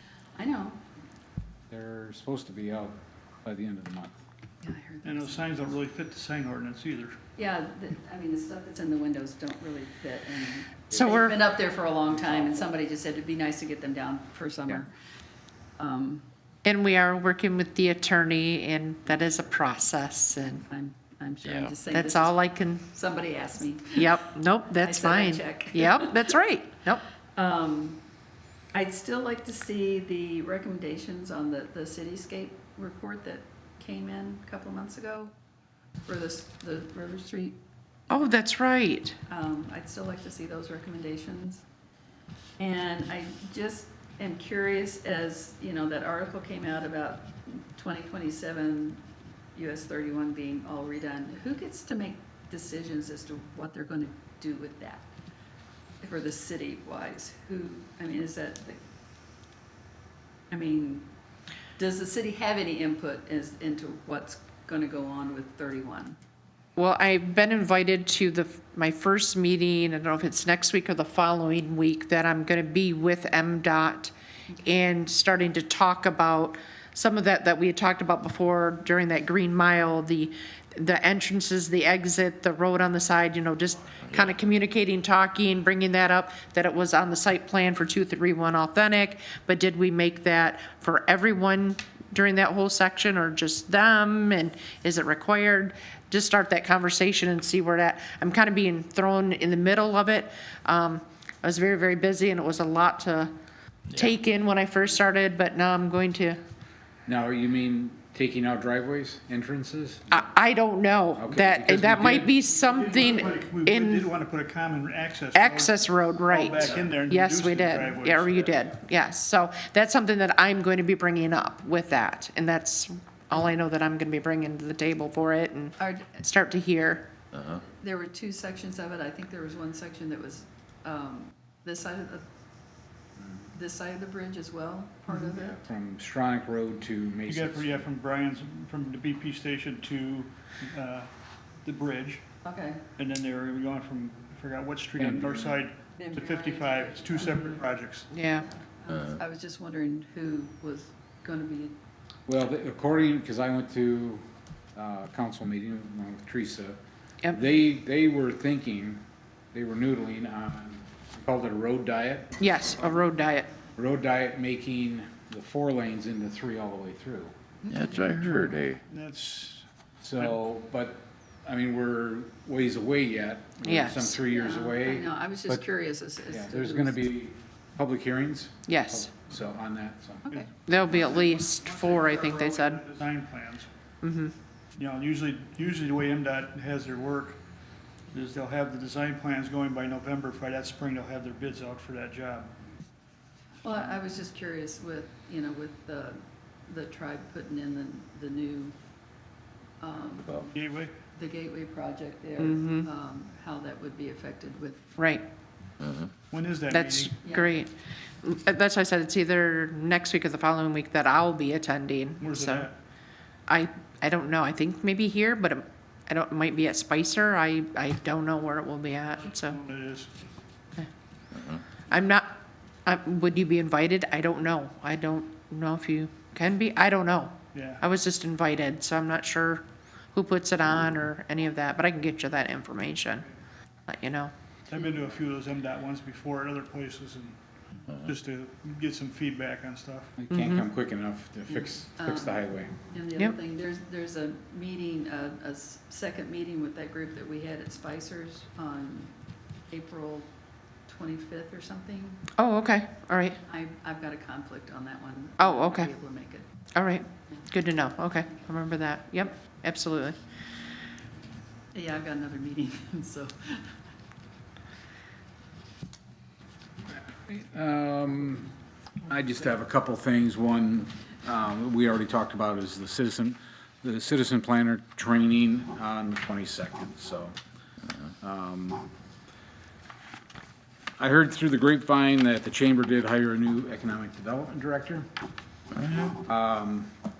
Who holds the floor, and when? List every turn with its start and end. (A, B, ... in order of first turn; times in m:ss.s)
0:00.3-0:00.8 A
0:01.7-0:04.2 B
0:04.6-0:05.7 A
0:05.0-0:07.1 C
0:07.4-0:14.9 A
0:10.9-0:11.4 D
0:12.3-0:12.6 E
0:15.8-0:16.2 A
0:16.6-0:20.6 D
0:20.7-0:24.2 A
0:21.4-0:21.7 E
0:21.9-0:22.8 D
0:23.9-0:27.0 D
0:24.8-0:26.2 A
0:27.3-0:28.0 A
0:28.7-0:35.3 A
0:36.0-0:37.6 A
0:38.1-0:39.2 D
0:39.3-0:41.6 A
0:42.6-0:49.0 A
0:49.5-0:55.1 A
0:56.0-0:58.8 A
1:00.5-1:01.0 A
1:01.8-1:06.2 A
1:06.8-1:43.3 D
1:24.0-1:24.3 E
1:43.9-1:44.2 E
1:44.0-1:46.4 D
1:47.0-1:50.2 B
1:50.1-1:54.0 D
1:51.2-1:52.3 B
1:51.8-1:58.5 C
1:55.3-2:07.1 D
2:05.8-2:06.2 A
2:07.3-2:07.6 E
2:07.6-2:12.2 A
2:13.5-2:15.6 A
2:15.3-2:17.8 B
2:17.3-2:21.1 C
2:21.6-2:22.2 C
2:22.4-2:22.8 A
2:23.0-2:28.1 C
2:25.0-2:25.6 B
2:26.0-2:27.6 A
2:28.1-2:28.4 D
2:28.4-2:31.8 A
2:28.9-2:29.2 E
2:32.3-2:34.2 B
2:34.7-2:36.8 B
2:37.3-2:39.0 B
2:39.5-2:42.4 B
2:42.4-2:43.5 D
2:43.8-2:47.3 B
2:47.7-2:48.8 E
2:47.7-2:48.1 A
2:48.2-2:49.6 C
2:50.0-2:55.6 B
2:53.6-2:54.2 D
2:54.3-2:57.0 A
2:56.3-3:00.3 B
2:58.7-2:59.1 D
3:00.3-3:03.7 C
3:00.7-3:02.8 D
3:04.0-3:04.3 D
3:04.8-3:07.4 C
3:08.1-3:12.5 C
3:13.6-3:18.7 A
3:19.8-3:20.5 A
3:20.5-3:20.9 C
3:21.1-3:24.8 A
3:22.4-3:22.9 D
3:25.8-3:26.1 E
3:26.3-3:27.2 C
3:26.7-3:32.7 D
3:27.2-3:27.6 A
3:32.2-3:32.7 C
3:33.5-3:39.6 D
3:39.4-3:40.1 C
3:41.3-3:41.6 E
3:41.9-3:53.3 D
3:47.5-3:47.8 C
3:53.9-3:54.3 D
3:54.7-3:57.4 C
3:58.0-4:00.1 C
4:00.2-4:02.7 B
4:00.3-4:00.6 D
4:01.5-4:09.1 A
4:09.7-4:10.3 A
4:10.9-4:12.2 A
4:12.4-4:13.4 D
4:13.4-4:16.5 A
4:15.4-4:15.9 D
4:16.7-4:20.2 D
4:21.7-4:23.7 A
4:27.2-4:28.5 B
4:29.0-4:37.3 B
4:38.2-4:38.9 B
4:41.0-4:45.1 B
4:45.7-4:46.2 E
4:46.2-4:46.9 B